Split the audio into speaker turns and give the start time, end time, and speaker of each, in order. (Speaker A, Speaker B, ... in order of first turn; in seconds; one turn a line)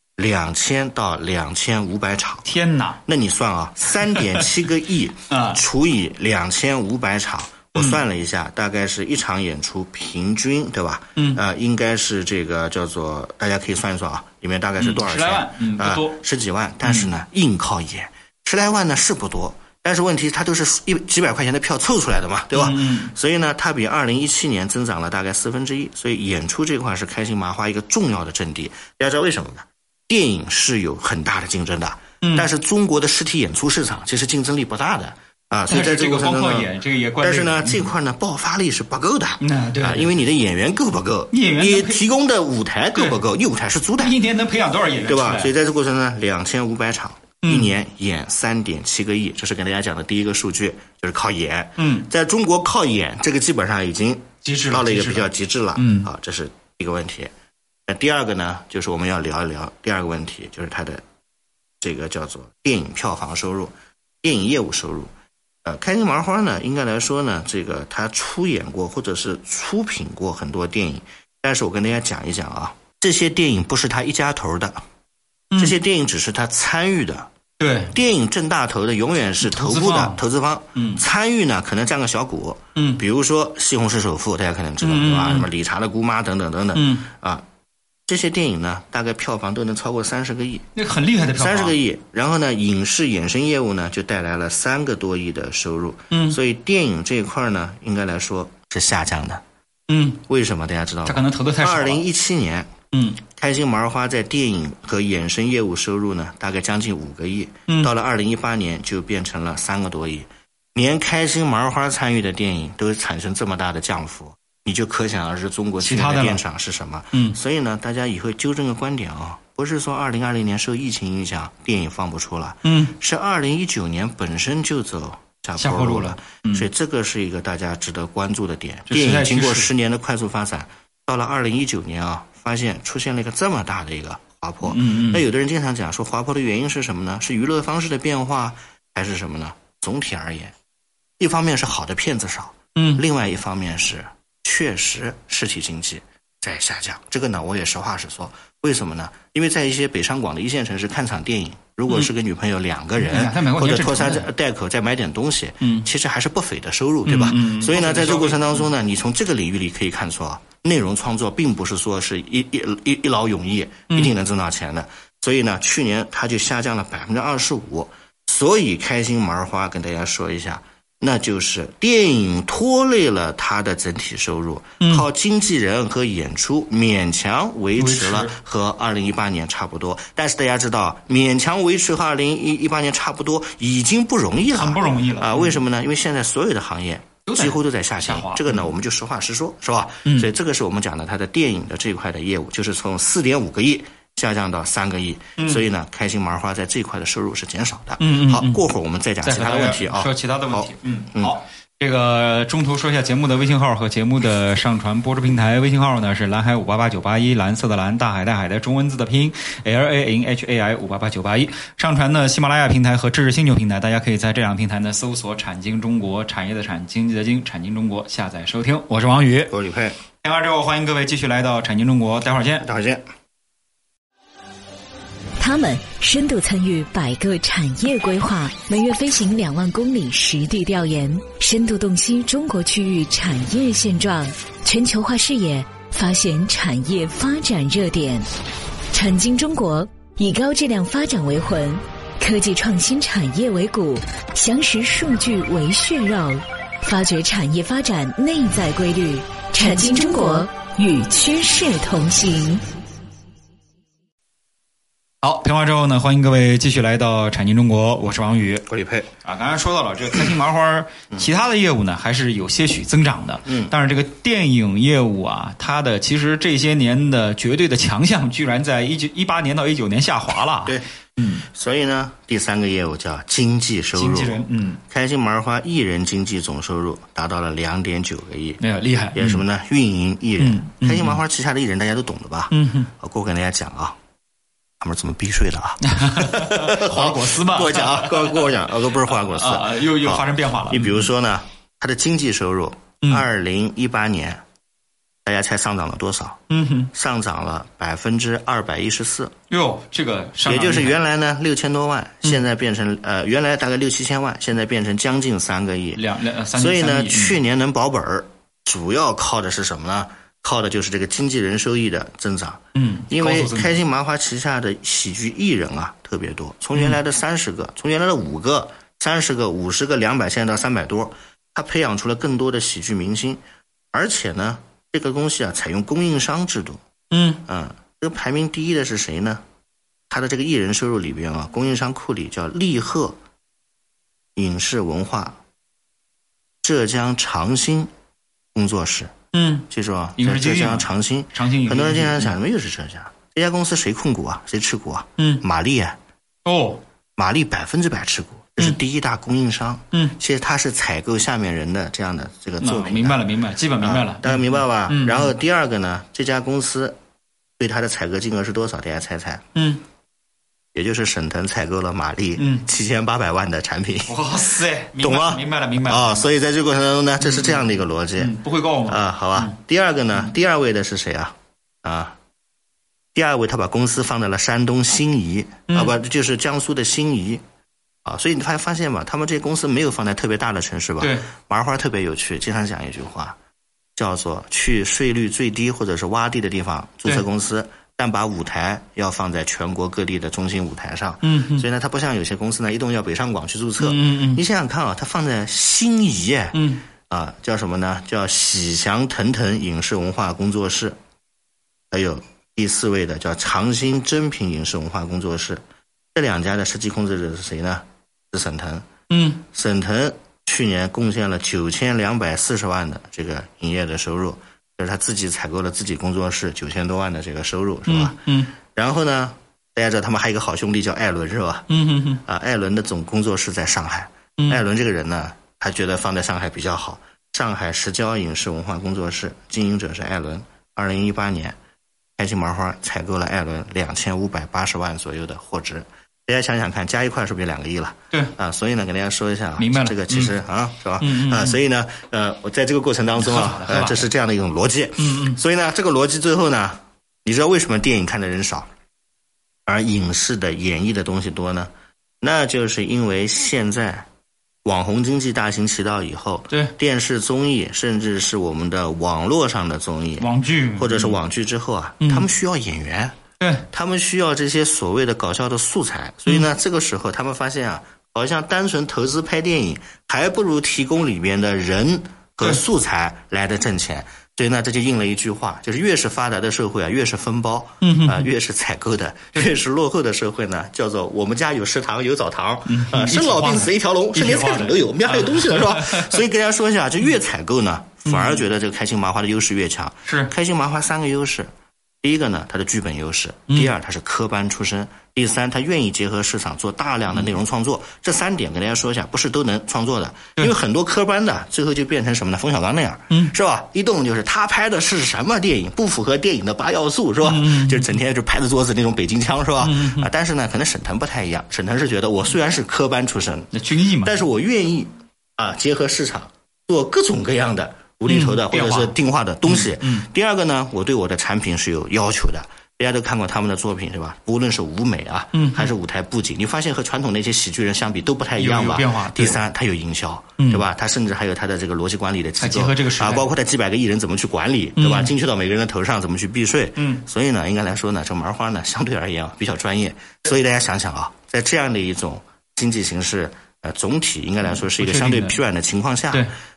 Speaker A: 0.2-2.5
Speaker B: 2.5-3.0
Speaker A: 3.1-44.2
Speaker B: 4.1-4.5
Speaker B: 5.3-5.6
Speaker B: 7.8-8.0
Speaker B: 11.2-11.4
Speaker B: 14.8-16.2
Speaker B: 16.8-17.1
Speaker B: 22.5-23.1
Speaker B: 32.2-32.5
Speaker B: 35.7-37.9
Speaker B: 39.4-40.1
Speaker B: 41.3-42.0
Speaker B: 42.9-43.2
Speaker B: 44.0-45.5
Speaker A: 45.0-57.3
Speaker B: 47.4-47.7
Speaker B: 51.8-52.1
Speaker B: 54.4-56.1
Speaker A: 57.9-61.0
Speaker A: 61.8-65.1
Speaker A: 65.7-74.8
Speaker A: 75.6-77.3
Speaker B: 77.6-78.0
Speaker A: 77.9-87.4
Speaker B: 79.4-80.2
Speaker B: 80.8-81.0
Speaker B: 82.8-83.0
Speaker B: 84.8-85.5
Speaker B: 86.8-87.0
Speaker A: 88.1-90.7
Speaker B: 90.8-91.8
Speaker A: 91.4-99.4
Speaker B: 96.1-96.4
Speaker B: 99.9-100.2
Speaker A: 100.2-102.7
Speaker B: 101.0-102.0
Speaker B: 102.9-103.2
Speaker A: 103.3-140.5
Speaker B: 115.8-116.4
Speaker B: 122.7-123.0
Speaker B: 125.6-126.7
Speaker B: 128.9-129.7
Speaker B: 134.6-135.2
Speaker A: 141.2-201.3
Speaker B: 142.8-143.0
Speaker B: 153.0-154.3
Speaker B: 157.1-158.6
Speaker B: 177.8-178.3
Speaker B: 184.5-185.6
Speaker B: 187.3-188.7
Speaker B: 195.4-195.6
Speaker B: 198.0-198.6
Speaker B: 199.2-219.5
Speaker A: 219.5-220.0
Speaker B: 220.2-222.7
Speaker A: 222.6-223.0
Speaker C: 225.4-238.3
Speaker C: 238.9-252.6
Speaker B: 255.2-258.6
Speaker A: 258.7-259.1
Speaker B: 259.2-271.4
Speaker A: 263.5-263.7
Speaker A: 271.4-278.6
Speaker B: 274.0-274.8
Speaker B: 278.6-279.4
Speaker A: 279.1-284.0
Speaker B: 280.4-281.2
Speaker B: 282.5-282.9
Speaker A: 284.8-294.4
Speaker B: 285.9-288.5
Speaker B: 289.1-291.1
Speaker A: 295.2-296.4
Speaker B: 296.5-296.9
Speaker A: 296.9-299.3
Speaker B: 299.5-301.0
Speaker A: 300.4-306.0
Speaker B: 305.9-307.4
Speaker A: 306.5-323.4
Speaker B: 312.8-313.7
Speaker A: 323.9-326.8
Speaker B: 327.1-327.4
Speaker A: 327.4-329.4
Speaker A: 330.1-333.2
Speaker A: 334.4-335.4
Speaker A: 336.6-337.9
Speaker A: 338.6-339.1
Speaker B: 339.3-342.3
Speaker A: 339.7-346.0
Speaker B: 346.4-346.8
Speaker A: 347.2-353.2
Speaker B: 352.6-355.3
Speaker A: 353.8-357.0
Speaker A: 357.6-359.4
Speaker B: 359.6-359.8
Speaker A: 360.7-364.1
Speaker B: 362.4-362.7
Speaker B: 364.1-366.3
Speaker A: 365.0-372.2
Speaker B: 367.2-367.7
Speaker B: 368.2-369.5
Speaker A: 373.1-377.4
Speaker A: 378.1-383.4
Speaker B: 381.0-381.3
Speaker A: 384.0-401.0
Speaker B: 391.2-391.6
Speaker B: 393.8-394.4
Speaker B: 396.5-396.8
Speaker A: 401.9-405.6
Speaker A: 406.1-408.9
Speaker B: 409.1-409.4
Speaker A: 409.5-421.7
Speaker B: 417.9-418.5
Speaker B: 421.7-422.2
Speaker A: 422.2-431.6
Speaker A: 432.2-448.7
Speaker B: 439.6-440.3
Speaker B: 441.0-441.6
Speaker B: 443.2-444.1
Speaker B: 445.0-445.4
Speaker A: 449.7-451.7
Speaker A: 452.2-454.1
Speaker A: 454.6-463.2
Speaker B: 460.2-461.2
Speaker B: 463.4-463.7
Speaker A: 463.7-491.5
Speaker B: 477.8-478.3
Speaker B: 482.7-486.2
Speaker B: 488.1-488.4
Speaker A: 492.0-513.5
Speaker B: 507.2-507.9
Speaker B: 509.6-510.1
Speaker B: 513.5-514.1
Speaker A: 514.0-546.3
Speaker B: 518.1-520.1
Speaker B: 525.3-525.7
Speaker B: 528.4-529.4
Speaker B: 532.4-533.3
Speaker B: 534.8-535.1
Speaker B: 536.8-537.0
Speaker B: 544.8-545.4